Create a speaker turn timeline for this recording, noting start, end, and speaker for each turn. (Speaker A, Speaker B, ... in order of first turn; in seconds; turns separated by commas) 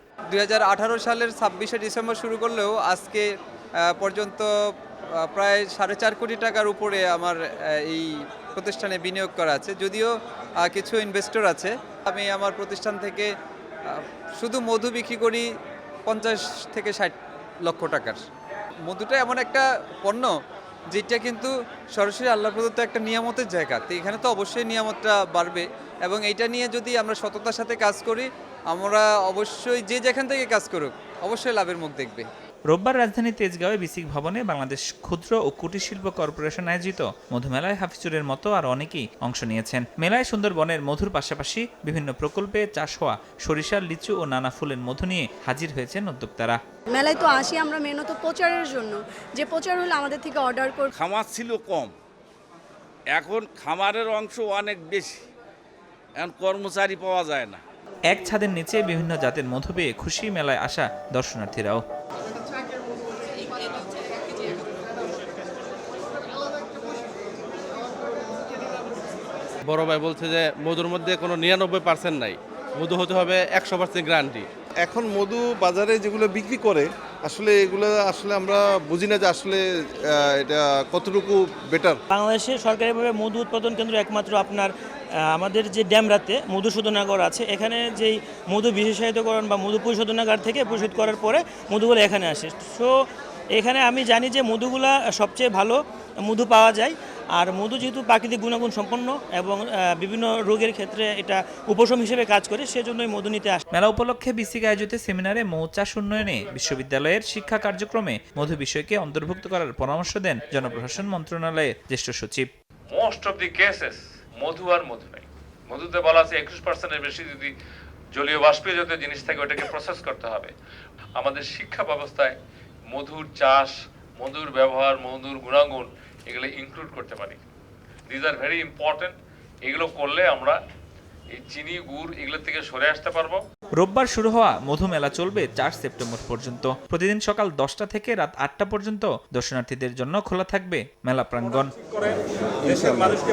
Speaker A: 0.3-3.2, Speaker A: 3.9-4.5, Speaker A: 5.3-10.1, Speaker A: 10.7-13.3, Speaker A: 13.9-15.4, Speaker A: 16.1-18.2, Speaker A: 18.9-20.3, Speaker A: 20.9-32.3, Speaker B: 32.7-46.6, Speaker C: 46.9-50.9, Speaker D: 51.0-51.9, Speaker D: 53.1-55.2, Speaker D: 56.2-57.6, Speaker B: 58.1-61.8, Speaker E: 69.7-74.5, Speaker F: 74.8-82.0, Speaker G: 82.1-84.7, Speaker G: 85.3-92.9, Speaker G: 93.5-103.6, Speaker B: 103.7-112.5, Speaker H: 112.9-117.5, Speaker H: 118.1-120.5, Speaker H: 121.2-122.3, Speaker H: 122.9-127.4, Speaker H: 128.1-129.1, Speaker H: 129.7-130.6, Speaker H: 131.3-133.4, Speaker B: 133.8-141.7, Speaker F: 142.7-143.1